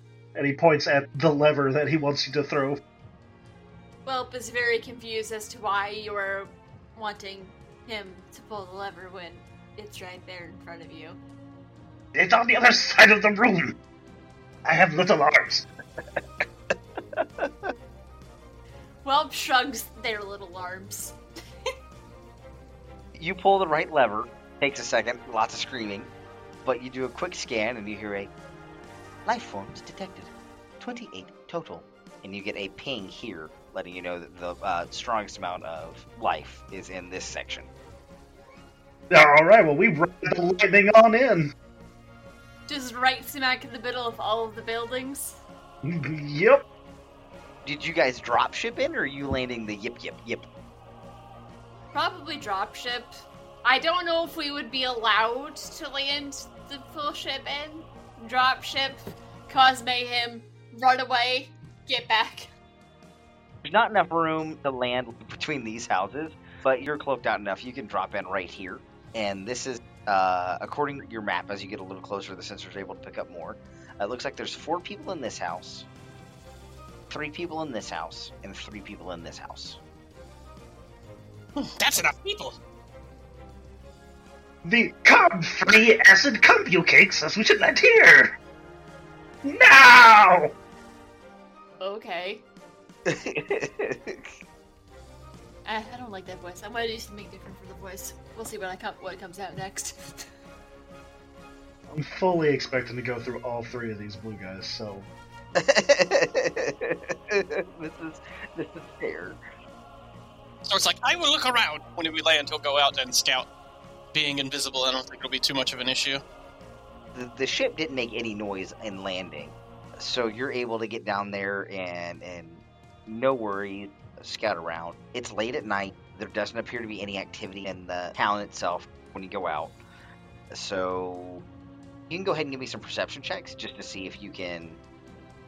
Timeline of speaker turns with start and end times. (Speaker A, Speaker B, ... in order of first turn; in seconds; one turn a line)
Speaker A: 0.3-2.8
Speaker B: 4.0-11.2
Speaker A: 12.1-13.8
Speaker A: 14.6-15.6
Speaker C: 17.2-17.5
Speaker B: 19.0-21.2
Speaker C: 23.1-26.1
Speaker C: 26.6-28.3
Speaker C: 29.2-37.7
Speaker A: 39.1-41.5
Speaker B: 42.7-45.4
Speaker A: 45.8-46.6
Speaker C: 47.6-50.5
Speaker B: 51.9-53.1
Speaker B: 53.6-62.5
Speaker C: 63.6-75.8
Speaker C: 77.1-79.8
Speaker D: 81.6-82.5
Speaker A: 84.6-88.3
Speaker A: 89.4-90.5
Speaker B: 91.8-92.4
Speaker C: 93.0-94.3
Speaker B: 95.6-100.2
Speaker A: 101.9-105.1
Speaker C: 105.5-109.4
Speaker D: 110.6-113.5
Speaker D: 114.1-116.2
Speaker C: 117.1-129.8
Speaker C: 130.5-131.4
Speaker C: 132.1-134.8